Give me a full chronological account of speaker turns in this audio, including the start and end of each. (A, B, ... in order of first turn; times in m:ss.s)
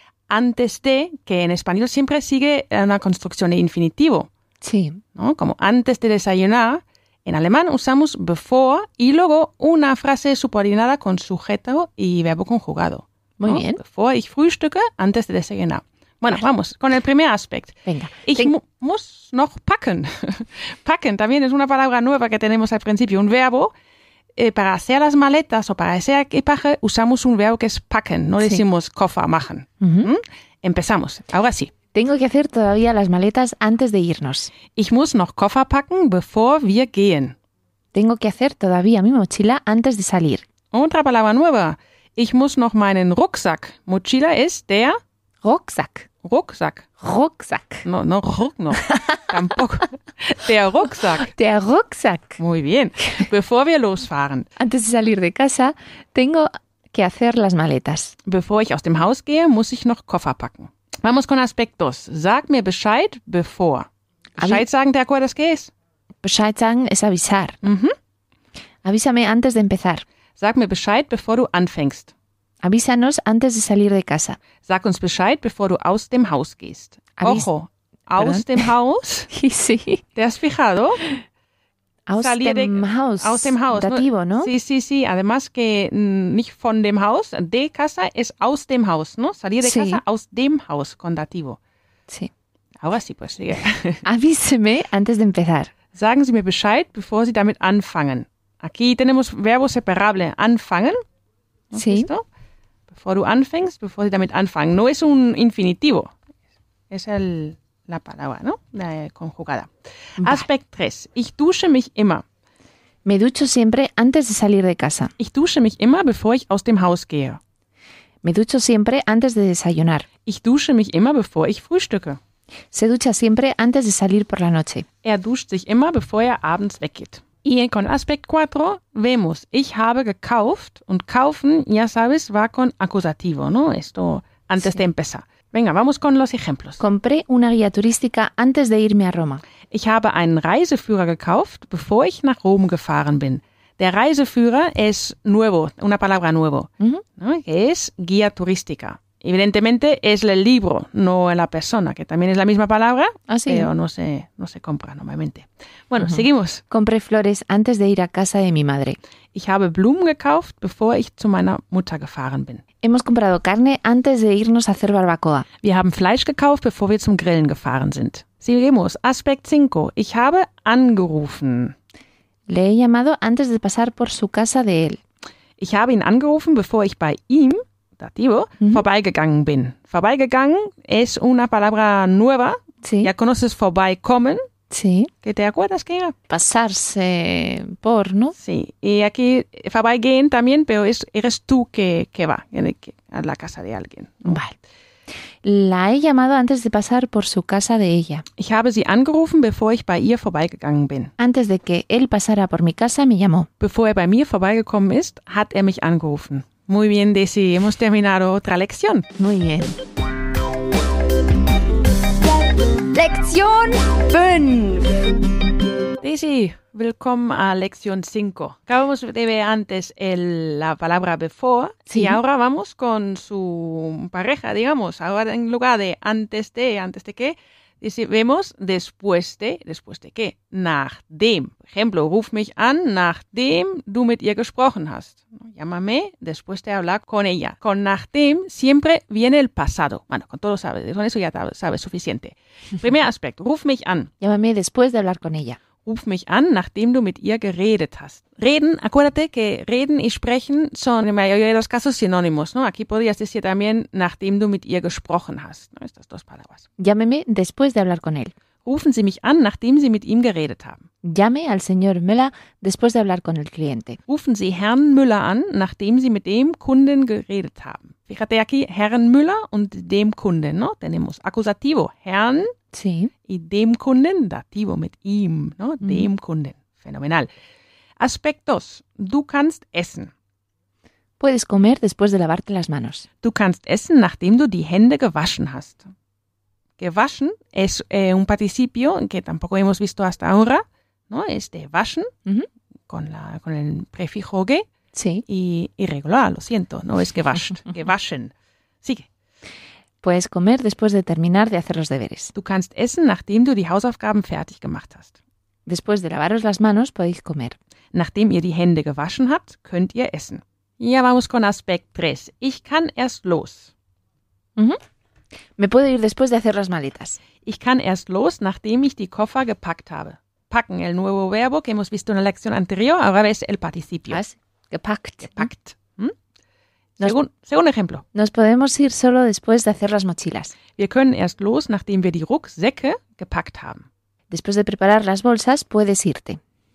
0:00.3-0:04.3 A
0:04.6-0:05.0 B
0:05.2-0:23.7 A
0:13.4-0:13.8 B
0:17.9-0:18.5 B
0:24.4-0:31.7 A
0:29.8-0:30.1 B
0:31.9-0:34.5 B
0:34.8-0:37.4 A
0:37.9-0:40.4 B
0:40.7-0:45.0 A
0:45.4-0:46.1 B
0:46.2-0:46.9 A
0:47.0-0:47.9 B
0:47.8-0:51.3 A
0:48.9-0:49.2 B
0:51.3-0:52.4 B
0:52.4-0:54.5 A
0:54.6-0:58.2 B
0:58.2-1:03.9 A
1:04.4-1:04.6 B
1:04.4-1:05.7 A
1:06.2-1:07.6 B
1:07.6-1:08.0 A
1:08.8-1:10.0 B
1:10.4-1:12.1 A
1:12.6-1:14.4 B
1:14.7-1:19.3 A
1:17.2-1:17.5 B
1:18.2-1:18.7 B
1:19.3-1:20.0 B
1:20.2-1:21.0 A
1:22.1-1:24.5 B
1:22.2-1:31.6 A
1:29.6-1:30.0 B
1:32.8-1:34.0 A
1:34.0-1:35.7 B
1:35.9-1:41.0 A
1:41.7-1:42.2 A
1:41.7-1:42.1 B
1:42.9-1:46.1 A
1:46.9-1:52.2 A
1:50.2-1:50.5 B
1:53.0-1:55.1 B
1:55.2-1:57.4 A
1:58.2-2:00.1 B
2:00.3-2:02.2 A
2:02.7-2:04.9 B
2:05.0-2:16.8 A
2:16.8-2:19.4 B
2:19.7-2:36.6 A
2:33.3-2:33.7 B
2:36.0-2:39.0 B
2:39.3-2:42.6 A
2:42.8-2:45.5 B
2:45.6-2:51.8 A
2:52.5-2:55.0 B
2:55.6-3:04.4 A
3:02.8-3:03.1 B
3:04.7-3:05.1 B
3:05.2-3:06.2 A
3:06.3-3:08.4 B
3:08.4-3:14.4 A
3:14.3-3:14.6 B
3:15.4-3:18.3 B
3:18.4-3:21.1 A
3:21.2-3:23.5 B
3:23.6-3:29.1 A
3:29.2-3:29.8 B
3:32.9-3:35.1 C
3:36.0-4:04.1 A
3:41.9-3:42.2 B
4:04.2-4:05.6 B
4:05.9-4:16.6 A
4:16.8-4:18.3 B
4:18.6-4:20.8 A
4:21.0-4:24.0 B
4:24.1-4:32.5 A
4:32.7-4:33.1 B
4:33.3-4:37.3 A
4:35.8-4:36.1 B
4:38.0-4:40.1 A
4:41.2-4:43.1 B
4:43.2-4:45.9 A
4:46.8-4:52.1 A
4:52.9-4:54.6 A
4:54.9-4:55.2 B
4:55.3-4:59.1 A
5:00.0-5:02.3 B
5:02.4-5:05.2 A
5:05.7-5:07.6 B
5:07.9-5:13.7 A
5:15.6-5:17.2 B
5:17.4-5:24.2 A
5:24.1-5:25.5 B
5:25.3-5:26.2 A
5:27.0-5:28.0 A
5:28.1-5:30.6 B
5:30.8-5:33.9 A
5:34.3-5:36.4 B